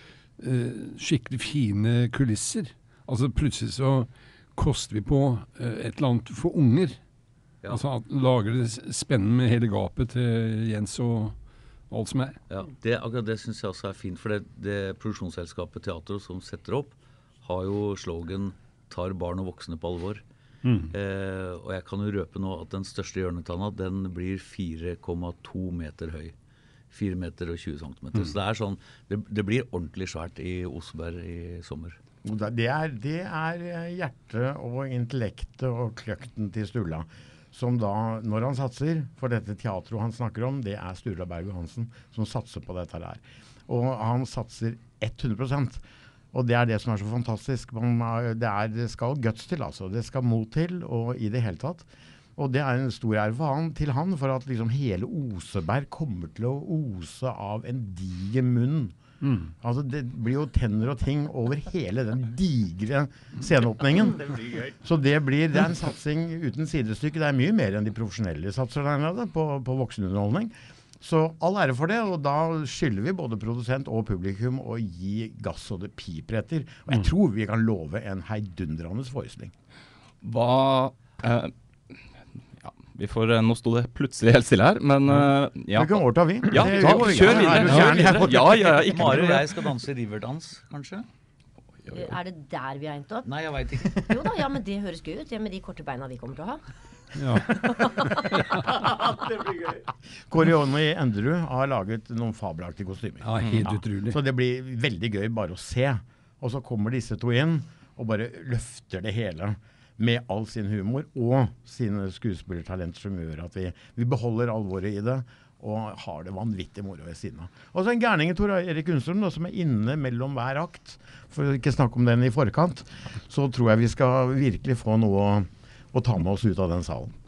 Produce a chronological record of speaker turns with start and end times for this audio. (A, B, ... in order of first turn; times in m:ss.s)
0:00.4-0:07.0 A
0:07.7-0:11.3 A
0:11.9-0:12.4 A
0:12.5-0:20.2 B
0:20.6-0:20.9 A
0:20.9-0:26.3 B
0:26.9-0:32.0 B
0:32.2-0:59.0 C
0:59.2-0:59.5 A
0:59.6-1:04.2 C
1:04.0-1:04.7 B
1:04.8-1:19.5 C
1:20.2-1:21.5 D
1:22.6-1:29.5 D
1:25.7-1:28.9 C
1:26.7-1:31.0 B
1:31.9-1:33.3 E
1:33.2-1:34.1 B
1:33.9-1:36.6 E
1:37.2-1:37.6 A
1:37.6-1:38.1 E
1:38.1-1:38.4 A
1:38.7-1:39.8 B
1:40.3-2:07.1 C
1:43.2-1:44.2 A